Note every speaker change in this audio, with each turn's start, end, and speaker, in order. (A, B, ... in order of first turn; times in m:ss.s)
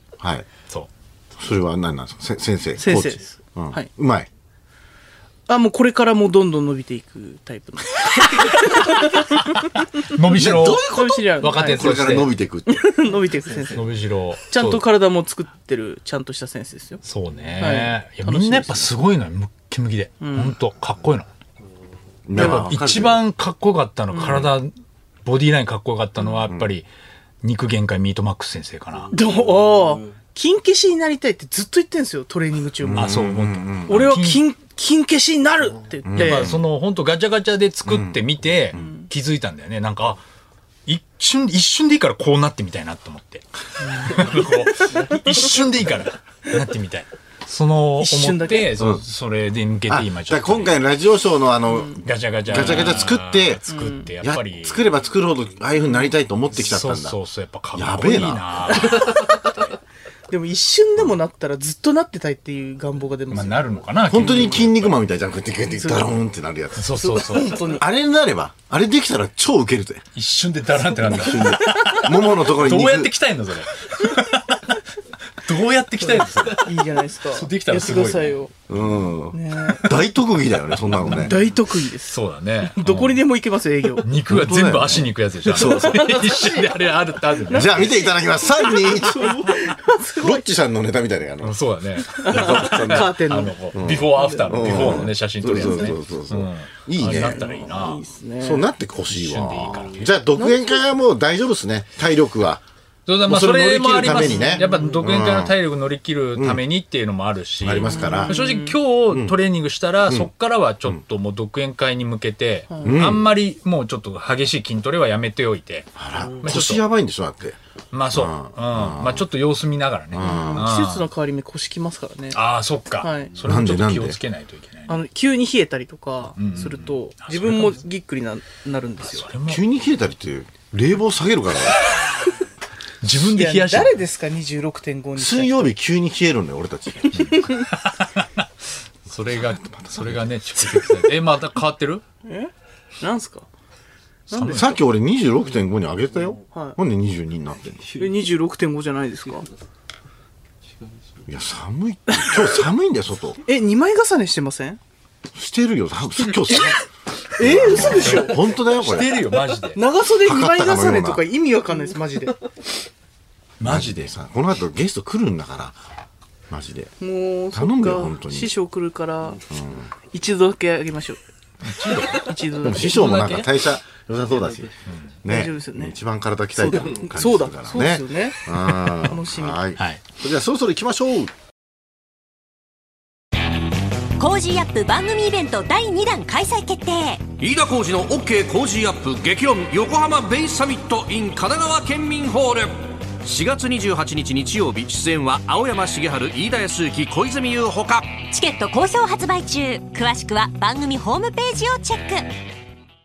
0:00.2-0:00.5 A
0:01.4-0:04.3 A
0:02.8-0:03.9 B
0:05.5-0:09.8 B
0:10.0-0:12.3 C
0:10.4-0:12.9 A
0:10.6-0:13.9 B
0:13.6-0:14.9 C
0:14.4-0:17.0 B
0:17.0-0:21.3 C
0:17.6-0:19.0 B
0:20.2-0:20.6 B
0:22.3-0:23.2 A
0:22.4-0:24.7 C
0:22.4-0:22.6 B
0:24.1-0:24.5 B
0:25.2-0:26.9 C
0:27.4-0:29.1 C
0:29.1-0:33.2 B
0:32.8-0:34.0 A
0:33.0-0:34.5 C
0:33.9-0:36.5 B
0:36.0-0:36.6 A
0:36.2-0:40.2 C
0:37.9-0:38.2 A
0:38.8-0:39.1 B
0:40.9-0:50.8 C
0:44.0-0:45.1 B
0:48.0-0:48.8 B
0:48.8-0:49.0 A
0:49.9-0:53.6 A
0:51.7-0:52.0 B
0:52.0-0:54.9 C
0:53.7-0:54.1 B
0:54.2-0:57.2 A
0:56.6-0:59.4 C
0:57.7-0:58.4 A
0:58.7-0:59.5 B
1:00.3-1:03.7 B
1:03.3-1:05.0 C
1:04.1-1:06.9 A
1:05.7-1:06.2 B
1:06.8-1:07.6 C
1:07.0-1:07.8 B
1:07.5-1:10.0 A
1:10.1-1:14.8 C
1:11.0-1:13.1 A
1:11.2-1:12.1 B
1:15.4-1:18.9 C
1:16.5-1:18.5 B
1:18.7-1:21.4 A
1:19.3-1:19.9 B
1:20.8-1:21.4 C
1:21.0-1:24.1 B
1:22.0-1:23.2 C
1:24.0-1:27.9 C
1:24.3-1:26.0 A
1:25.5-1:26.8 B
1:27.4-1:30.5 B
1:27.5-1:29.6 A
1:30.2-1:31.6 A
1:31.4-1:38.0 C
1:32.1-1:37.4 A
1:32.2-1:36.0 B
1:37.0-1:38.7 B
1:38.4-1:42.6 A
1:39.1-1:40.1 C
1:40.4-1:40.9 B
1:43.1-1:56.8 C
1:43.3-1:45.6 A
1:44.0-1:45.1 B
1:46.4-1:46.6 A
1:47.6-1:48.4 A
1:47.8-1:48.8 B
1:49.1-1:49.4 A
1:52.7-1:53.1 B
1:52.8-1:53.3 A
1:56.0-1:57.6 A
1:57.9-2:01.1 C
1:58.1-1:59.3 A
2:00.1-2:00.7 A
2:00.2-2:02.4 B
2:02.3-2:05.0 C
2:03.0-2:03.4 B
2:03.4-2:04.2 A
2:04.9-2:09.3 B
2:06.4-2:07.8 C
2:09.0-2:09.6 C
2:09.5-2:11.8 A
2:13.0-2:14.0 C
2:13.2-2:15.8 B
2:15.2-2:17.4 A
2:17.2-2:17.7 B
2:17.2-2:18.4 C
2:19.1-2:22.0 C
2:19.4-2:20.3 A
2:22.3-2:23.5 B
2:24.3-2:24.8 B
2:24.3-2:24.8 C
2:24.5-2:28.0 A
2:26.5-2:26.8 B
2:27.9-2:29.5 B
2:31.3-2:33.4 A
2:32.1-2:32.4 B
2:33.4-2:34.8 B
2:35.3-2:36.8 A
2:36.5-2:36.8 B
2:37.4-2:38.4 B
2:37.4-2:39.2 A
2:37.9-2:39.8 C
2:39.7-2:42.4 B
2:40.1-2:41.2 A
2:43.6-2:44.1 C
2:43.6-2:45.8 A
2:46.5-2:46.9 A
2:47.0-2:49.4 B
2:47.5-2:48.5 A
2:49.5-2:49.9 A
2:50.1-2:51.2 B
2:51.6-2:53.5 C
2:51.9-2:53.0 B
2:52.6-3:01.3 A
2:55.3-2:56.0 B
2:56.6-2:59.6 B
2:59.8-3:00.0 C
3:04.2-3:07.3 D
3:07.4-3:18.2 E
3:18.2-3:22.2 D